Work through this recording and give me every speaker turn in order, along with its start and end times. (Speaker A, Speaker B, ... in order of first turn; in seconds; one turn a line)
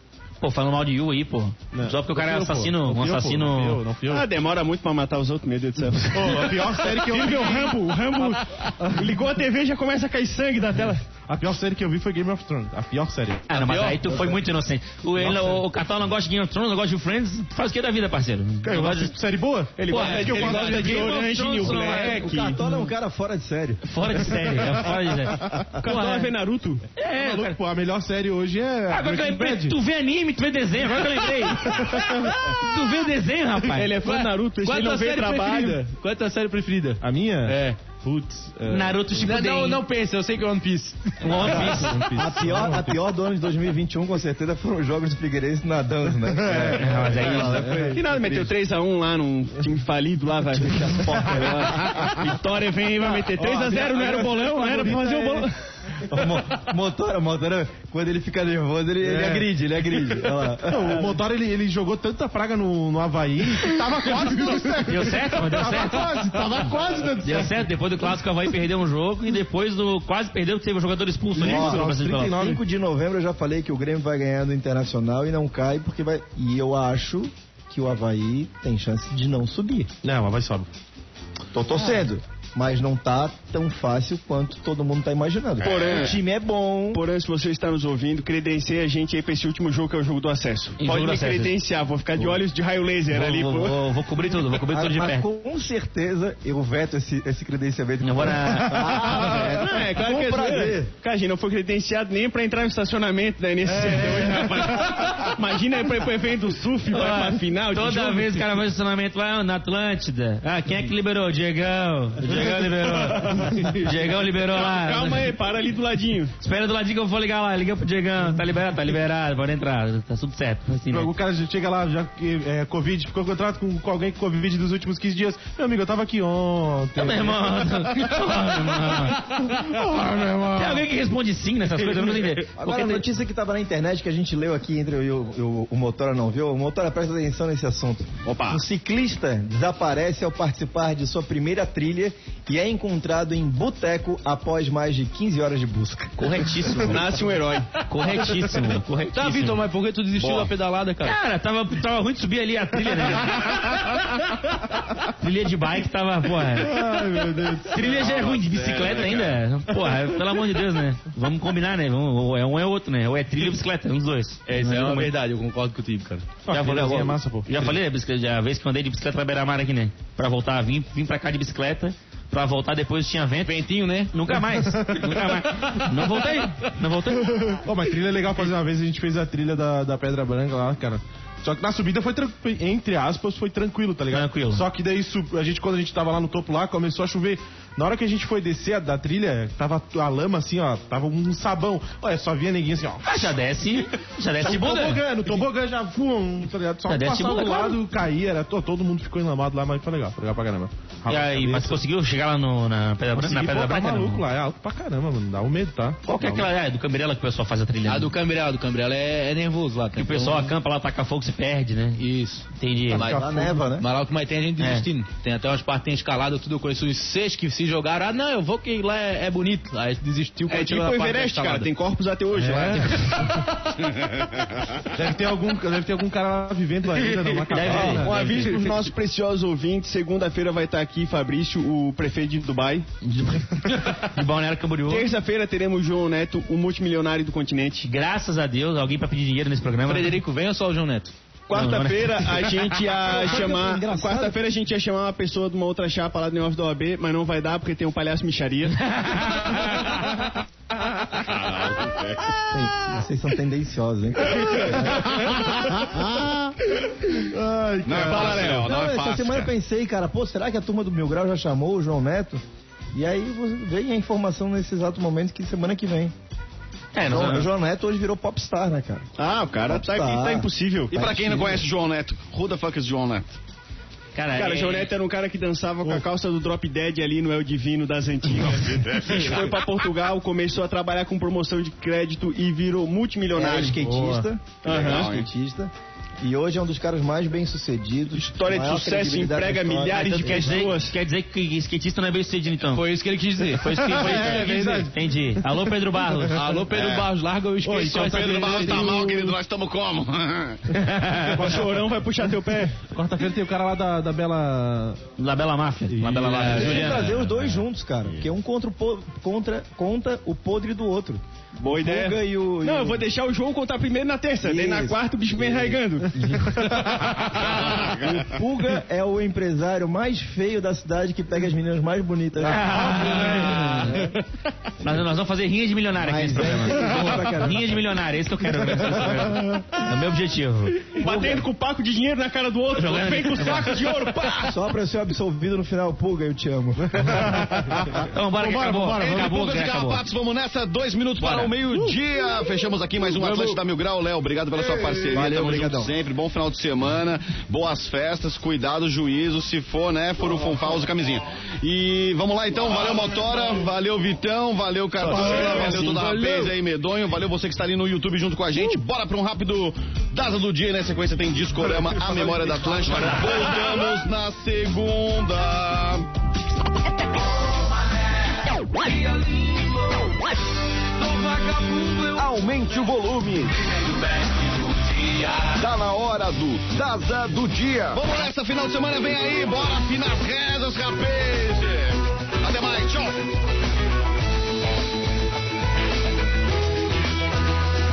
Speaker A: 0.4-3.8
Speaker B: 1.7-4.2
Speaker C: 4.1-11.0
Speaker B: 6.0-9.1
Speaker B: 11.3-13.5
Speaker A: 13.5-19.1
Speaker D: 13.6-14.0
Speaker E: 14.1-14.4
Speaker B: 15.2-15.6
Speaker B: 18.6-21.2
Speaker C: 19.8-22.6
Speaker A: 19.9-22.9
Speaker D: 19.9-21.0
Speaker D: 21.6-22.0
Speaker E: 22.0-23.9
Speaker A: 23.8-26.3
Speaker B: 24.4-24.9
Speaker C: 25.8-26.9
Speaker A: 27.0-27.6
Speaker B: 27.1-29.8
Speaker A: 28.9-33.9
Speaker B: 31.2-32.6
Speaker C: 33.7-35.8
Speaker D: 34.0-37.9
Speaker B: 37.0-39.1
Speaker A: 38.7-39.8
Speaker D: 39.1-42.0
Speaker A: 41.2-42.1
Speaker B: 41.3-43.0
Speaker E: 42.1-48.5
Speaker B: 46.2-48.4
Speaker A: 46.7-47.9
Speaker C: 47.9-55.5
Speaker B: 51.1-52.2
Speaker B: 53.3-55.5
Speaker E: 56.1-61.2
Speaker B: 59.0-67.7
Speaker A: 64.8-66.3
Speaker A: 67.2-72.4
Speaker B: 71.3-72.6
Speaker E: 71.4-79.9
Speaker B: 80.0-80.7
Speaker E: 81.5-87.0
Speaker F: 85.6-86.1
Speaker C: 85.6-86.2
Speaker C: 86.9-93.8
Speaker A: 90.8-91.5
Speaker A: 93.1-95.2
Speaker E: 94.6-100.9
Speaker A: 98.0-99.2
Speaker B: 98.7-99.1
Speaker C: 99.1-108.4
Speaker B: 103.8-105.0
Speaker A: 106.9-115.3
Speaker B: 112.3-113.8
Speaker C: 114.4-116.3
Speaker A: 116.4-121.1
Speaker B: 120.9-130.8
Speaker A: 127.0-129.8
Speaker A: 130.4-133.0
Speaker B: 132.0-132.3
Speaker E: 132.6-146.6
Speaker C: 138.2-138.6
Speaker A: 146.2-147.2
Speaker C: 146.8-147.7
Speaker A: 147.8-149.6
Speaker D: 149.1-151.2
Speaker A: 151.0-157.0
Speaker B: 156.6-158.0
Speaker A: 157.6-165.1
Speaker F: 157.8-159.4
Speaker D: 164.5-166.4
Speaker B: 166.4-167.8
Speaker A: 166.5-177.6
Speaker D: 173.4-174.2
Speaker B: 174.4-176.1
Speaker B: 177.3-193.3
Speaker A: 184.1-184.6
Speaker A: 193.0-195.4
Speaker B: 194.4-201.8
Speaker A: 196.9-197.8
Speaker A: 201.1-204.2
Speaker B: 203.1-206.5
Speaker A: 206.1-208.1
Speaker D: 207.8-210.5
Speaker A: 209.9-213.0
Speaker D: 212.0-221.7
Speaker B: 213.0-213.4
Speaker E: 213.1-213.8
Speaker A: 214.6-214.8
Speaker C: 220.5-223.2
Speaker B: 222.4-223.0
Speaker D: 222.5-222.9
Speaker A: 222.7-223.2
Speaker F: 223.9-224.8
Speaker B: 224.9-228.8
Speaker D: 227.1-227.8
Speaker A: 227.5-228.5
Speaker C: 227.7-232.9
Speaker A: 233.0-235.1
Speaker C: 234.9-237.9
Speaker A: 237.8-240.2
Speaker D: 239.8-241.1
Speaker C: 241.5-248.9
Speaker A: 241.5-242.9
Speaker E: 243.1-244.4
Speaker A: 248.8-250.2
Speaker F: 251.1-252.4
Speaker E: 252.5-255.8
Speaker B: 255.0-258.7
Speaker F: 257.8-259.5
Speaker E: 257.9-262.4
Speaker E: 262.9-266.1
Speaker A: 266.9-267.5
Speaker E: 267.1-269.1
Speaker C: 269.2-271.0
Speaker E: 269.7-271.6
Speaker F: 270.9-273.4
Speaker A: 274.1-274.9
Speaker C: 274.3-283.8
Speaker F: 278.6-279.5
Speaker E: 283.3-290.6
Speaker A: 283.8-284.1
Speaker C: 284.6-285.1
Speaker F: 284.6-285.2
Speaker C: 288.1-290.9
Speaker A: 289.9-292.9
Speaker D: 292.6-294.9
Speaker A: 293.5-296.4
Speaker B: 293.7-295.6
Speaker D: 296.3-299.4
Speaker F: 296.7-297.1
Speaker B: 297.6-298.8
Speaker F: 297.9-300.7
Speaker A: 300.7-301.5
Speaker B: 301.1-301.9
Speaker C: 301.4-302.8
Speaker B: 302.9-305.0
Speaker A: 305.2-307.6
Speaker B: 305.9-306.7
Speaker D: 306.3-307.1
Speaker E: 306.5-313.0
Speaker C: 311.6-316.2
Speaker E: 314.4-317.0
Speaker B: 316.7-317.0
Speaker F: 317.4-318.2
Speaker E: 317.7-322.8
Speaker A: 322.4-324.1
Speaker B: 322.5-324.1
Speaker A: 324.8-331.4
Speaker E: 326.0-327.8
Speaker B: 328.7-329.6
Speaker C: 330.9-334.5
Speaker A: 332.8-334.0
Speaker E: 334.4-337.5
Speaker B: 336.8-339.3
Speaker A: 338.1-340.1
Speaker F: 338.9-366.1
Speaker A: 341.2-341.5
Speaker B: 343.1-343.6
Speaker E: 344.9-345.9
Speaker C: 355.0-356.0
Speaker B: 355.2-355.9
Speaker D: 355.3-356.5
Speaker F: 372.1-373.7
Speaker F: 375.4-383.2